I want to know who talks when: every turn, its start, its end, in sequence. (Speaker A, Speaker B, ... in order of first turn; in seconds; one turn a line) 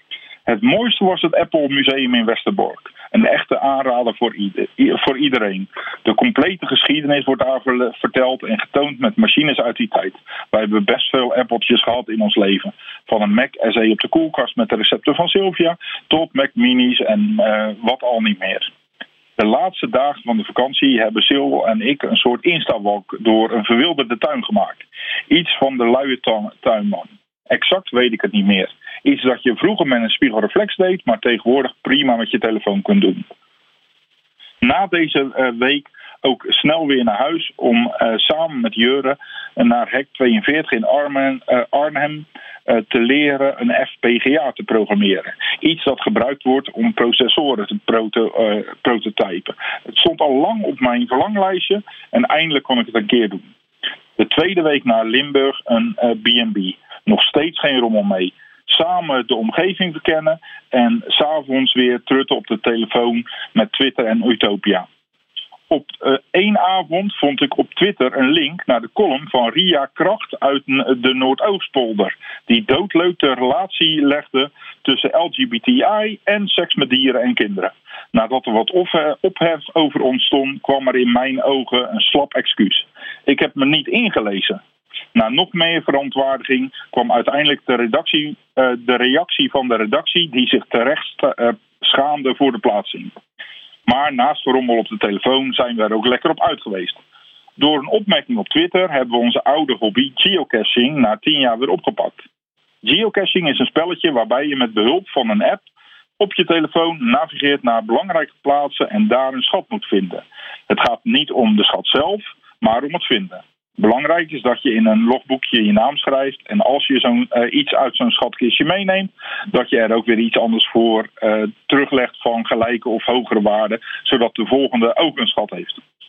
Speaker A: 0.5-18.7
Speaker A: 19.4-33.3
Speaker A: 34.6-53.5
Speaker A: 54.2-64.9
Speaker A: 65.7-84.6
Speaker A: 85.2-93.2
Speaker A: 93.9-97.0
Speaker A: 97.6-102.2
Speaker A: 102.8-105.6
Speaker A: 106.2-125.8